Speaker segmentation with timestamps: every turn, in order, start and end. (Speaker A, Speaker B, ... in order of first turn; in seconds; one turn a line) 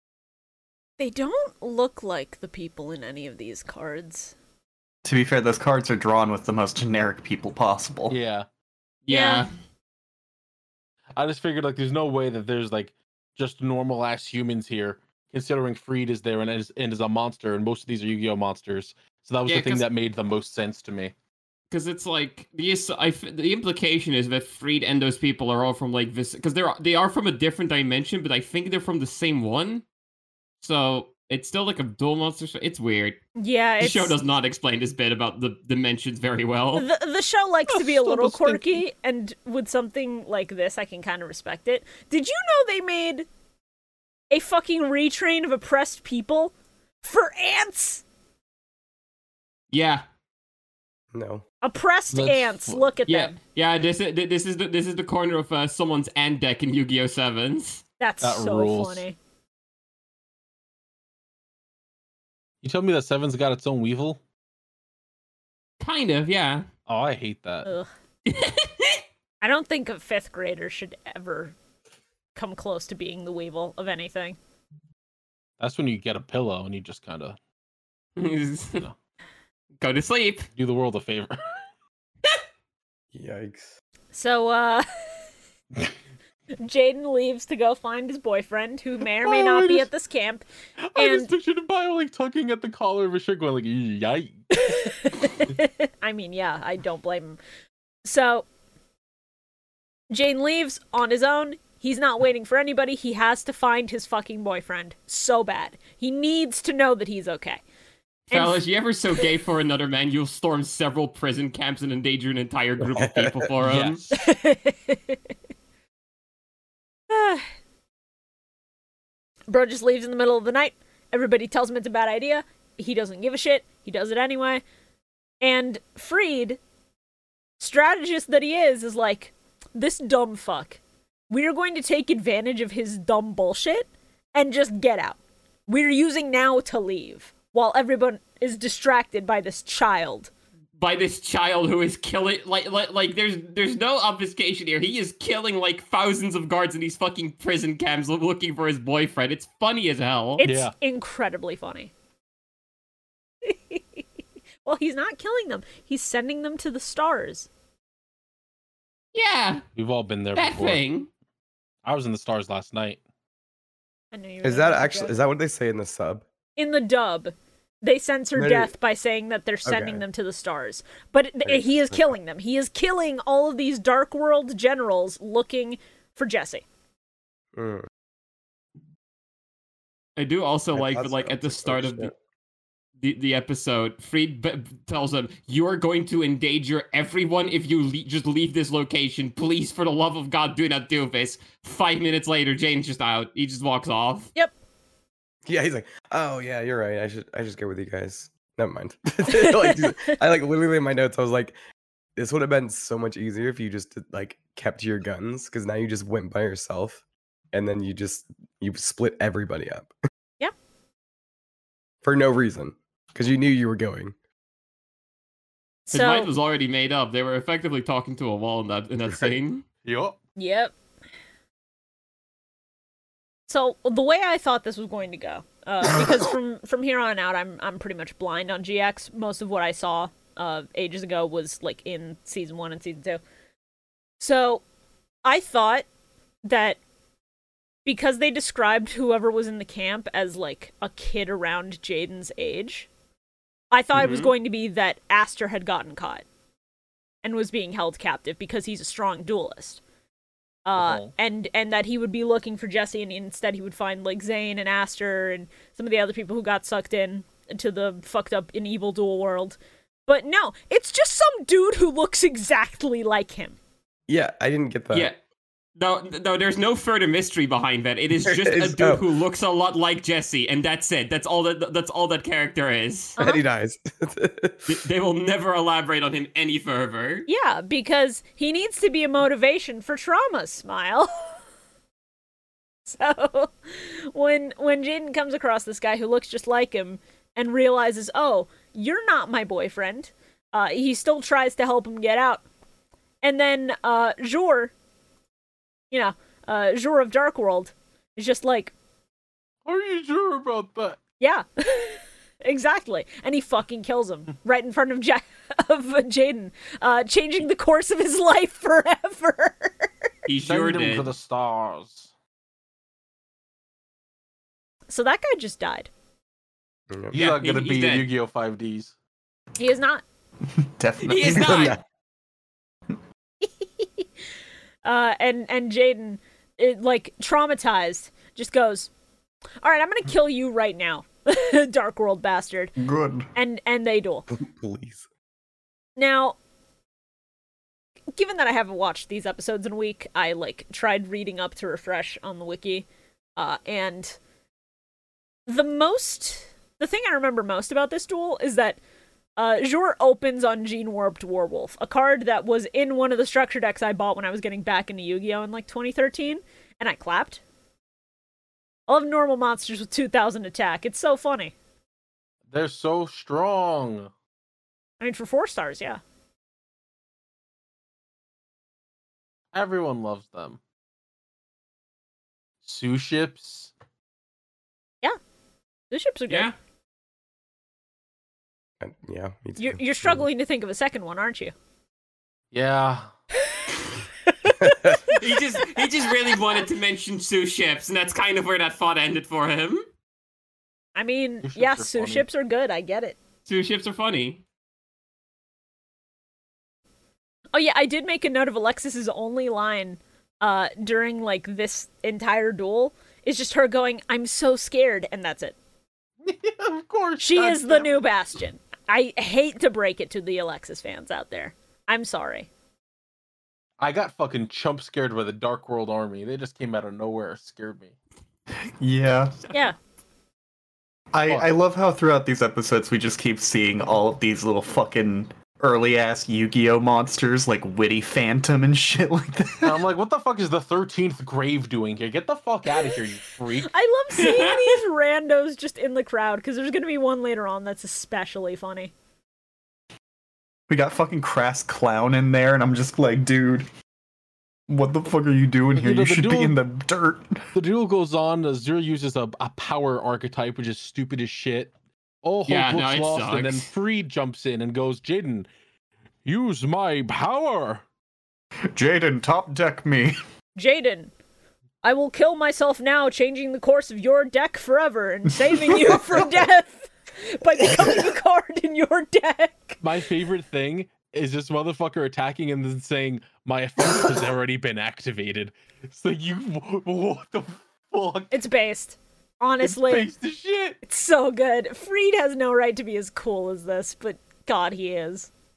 Speaker A: 1.0-4.3
Speaker B: 5.0-8.2
Speaker C: 8.1-8.4
Speaker D: 9.1-9.5
Speaker A: 9.1-9.5
Speaker C: 11.1-21.1
Speaker D: 19.5-19.8
Speaker D: 21.7-29.8
Speaker D: 30.6-33.2
Speaker A: 33.4-34.1
Speaker D: 33.8-36.9
Speaker A: 36.8-43.3
Speaker C: 37.7-38.8
Speaker A: 44.3-48.0
Speaker D: 49.7-50.0
Speaker E: 51.1-51.4
Speaker A: 51.6-53.4
Speaker C: 52.1-52.9
Speaker D: 53.1-57.8
Speaker A: 58.0-59.1
Speaker C: 58.2-59.0
Speaker C: 62.6-64.2
Speaker D: 65.8-66.7
Speaker C: 66.9-67.7
Speaker D: 68.3-69.0
Speaker A: 69.4-71.5
Speaker A: 72.3-74.4
Speaker C: 75.6-77.4
Speaker D: 78.2-78.8
Speaker D: 79.8-80.5
Speaker C: 80.5-81.4
Speaker E: 83.1-83.7
Speaker A: 84.1-84.8
Speaker A: 86.6-90.4
Speaker C: 89.2-89.9
Speaker C: 90.8-95.5
Speaker A: 91.0-91.3
Speaker A: 94.5-97.4
Speaker A: 98.0-98.5
Speaker A: 100.1-107.6
Speaker A: 108.3-108.6
Speaker D: 108.3-114.0
Speaker E: 112.8-113.5
Speaker C: 113.6-114.2
Speaker A: 114.1-115.2
Speaker A: 117.1-117.4
Speaker A: 119.5-124.6
Speaker A: 125.4-126.6
Speaker A: 127.6-140.3
Speaker D: 140.8-150.4
Speaker A: 150.4-151.9
Speaker C: 150.4-150.7
Speaker A: 153.4-154.0
Speaker A: 154.6-157.5
Speaker D: 159.1-159.6
Speaker C: 159.8-160.8
Speaker D: 160.3-161.1
Speaker C: 161.8-163.0
Speaker A: 164.1-165.2
Speaker E: 164.4-166.2
Speaker A: 166.6-176.6
Speaker E: 168.3-168.7
Speaker E: 169.6-170.0
Speaker E: 171.4-172.2
Speaker E: 177.5-177.9
Speaker D: 180.2-182.1
Speaker E: 180.7-182.1
Speaker D: 183.0-194.3
Speaker E: 195.4-201.6
Speaker A: 199.3-200.2
Speaker E: 202.2-209.9
Speaker E: 212.0-214.1
Speaker A: 215.9-216.3
Speaker D: 215.9-219.6
Speaker C: 219.8-220.2
Speaker A: 220.4-220.7
Speaker A: 223.5-233.2
Speaker A: 234.2-234.6
Speaker A: 235.2-235.8
Speaker A: 236.4-236.8
Speaker A: 237.8-242.9
Speaker A: 243.7-246.2
Speaker D: 243.9-244.3
Speaker A: 247.2-249.8
Speaker A: 250.7-263.6
Speaker C: 250.8-251.1
Speaker E: 264.1-265.1
Speaker D: 264.9-265.2
Speaker D: 265.8-273.2
Speaker E: 268.2-269.0
Speaker A: 273.2-273.4
Speaker E: 273.2-274.7
Speaker D: 274.6-277.3
Speaker A: 277.3-281.3
Speaker A: 282.9-292.4
Speaker A: 293.2-294.7
Speaker A: 295.9-298.7
Speaker C: 299.6-301.0
Speaker A: 301.2-309.9
Speaker D: 310.2-311.1
Speaker C: 310.4-312.1
Speaker A: 314.9-315.9
Speaker C: 317.1-318.9
Speaker D: 317.1-318.1
Speaker A: 319.6-320.0
Speaker B: 320.6-321.8
Speaker D: 321.0-321.8
Speaker E: 321.3-321.8
Speaker A: 323.4-324.0
Speaker A: 324.8-328.9
Speaker A: 329.6-332.7
Speaker B: 332.8-333.3
Speaker A: 333.3-334.3
Speaker E: 334.3-335.0
Speaker A: 336.0-336.4
Speaker A: 338.1-344.2
Speaker A: 345.5-348.8
Speaker A: 349.4-357.4
Speaker A: 358.9-361.5
Speaker C: 362.5-364.1
Speaker A: 365.0-366.0
Speaker C: 369.5-370.6
Speaker C: 372.6-373.7
Speaker A: 375.9-376.5
Speaker D: 376.3-376.5
Speaker E: 378.8-380.2
Speaker A: 379.6-381.5
Speaker C: 382.5-383.1
Speaker A: 384.3-385.2
Speaker E: 384.6-385.0
Speaker D: 385.1-389.8
Speaker A: 390.9-393.2
Speaker C: 391.4-392.2
Speaker D: 393.4-394.4
Speaker A: 397.5-405.6
Speaker C: 406.2-408.0
Speaker A: 407.2-412.5
Speaker C: 413.8-417.9
Speaker B: 418.8-419.4
Speaker B: 421.1-429.8
Speaker C: 421.3-421.5
Speaker C: 429.6-433.7
Speaker A: 433.6-438.9
Speaker D: 434.1-434.8
Speaker B: 440.7-443.7
Speaker B: 444.7-447.4
Speaker C: 445.7-446.6
Speaker C: 447.5-451.7
Speaker C: 452.2-455.5
Speaker D: 452.5-453.7
Speaker C: 456.2-457.8
Speaker B: 458.7-460.1
Speaker A: 460.6-461.1
Speaker A: 461.8-469.8
Speaker C: 469.8-478.4
Speaker A: 478.3-480.1
Speaker C: 479.6-480.8
Speaker A: 480.8-485.3